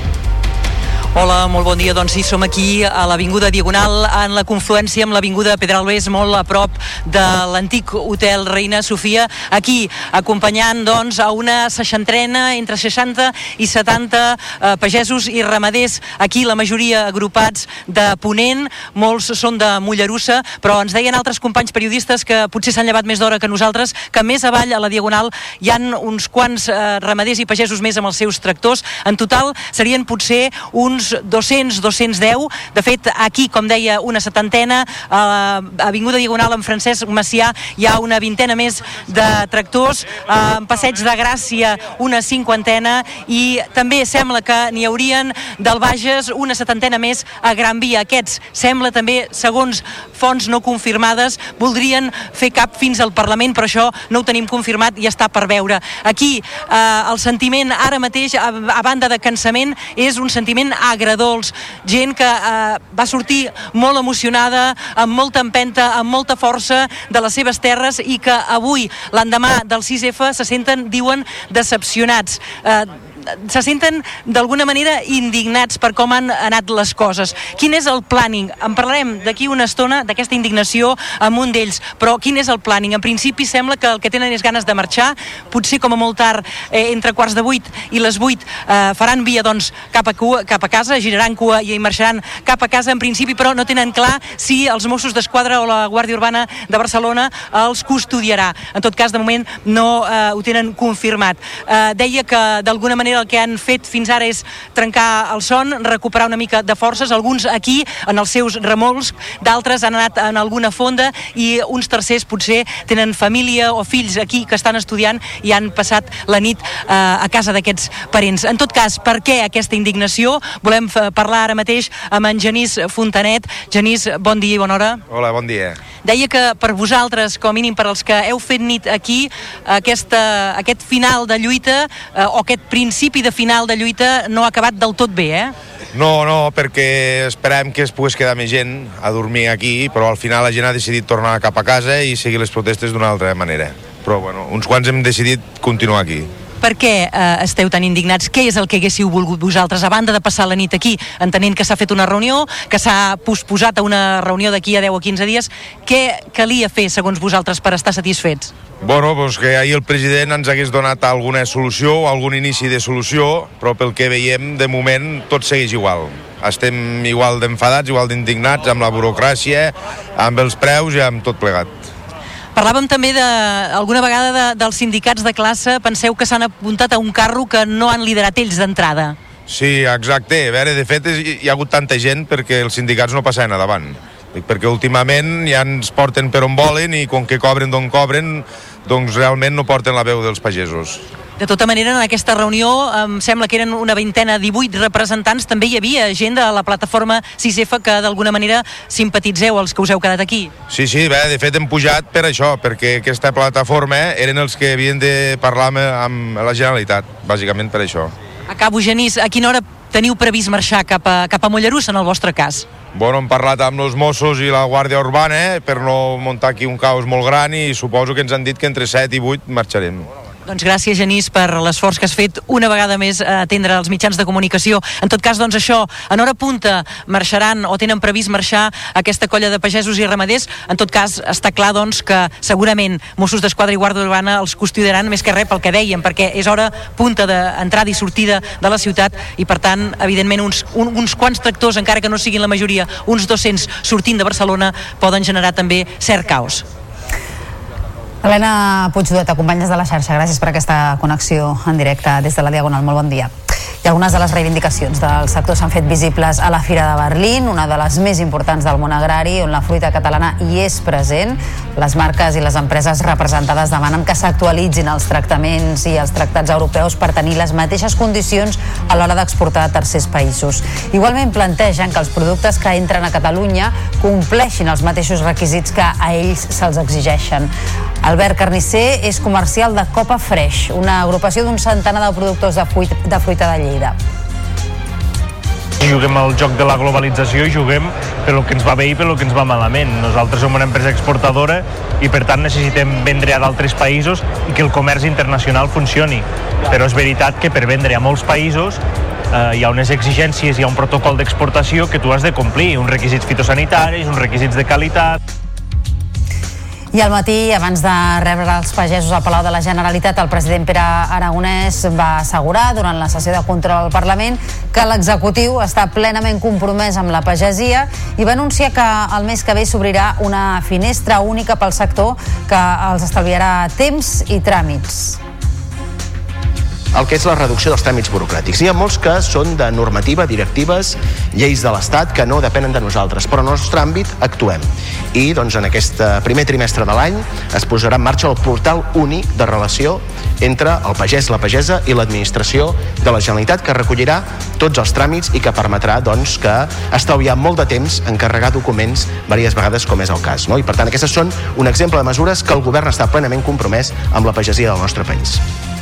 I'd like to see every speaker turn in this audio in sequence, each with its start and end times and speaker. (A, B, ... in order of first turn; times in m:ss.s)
0:01.1-2:05.0 A
2:05.1-2:05.8 B
2:06.0-2:15.5 A
2:15.9-2:26.3 B
2:26.6-2:38.5 A
2:38.8-2:51.8 B
2:52.6-2:59.2 A
2:59.5-3:11.0 B
3:11.4-3:20.5 A
3:20.7-3:28.1 B
3:28.5-3:32.7 A
3:32.9-3:40.1 B
3:40.5-4:06.6 A
4:08.2-4:13.3 C
4:13.8-4:37.5 C
4:38.0-4:44.0 C
4:45.8-4:58.8 D
4:59.3-5:05.2 D
5:06.9-5:25.2 C
5:26.9-5:55.4 E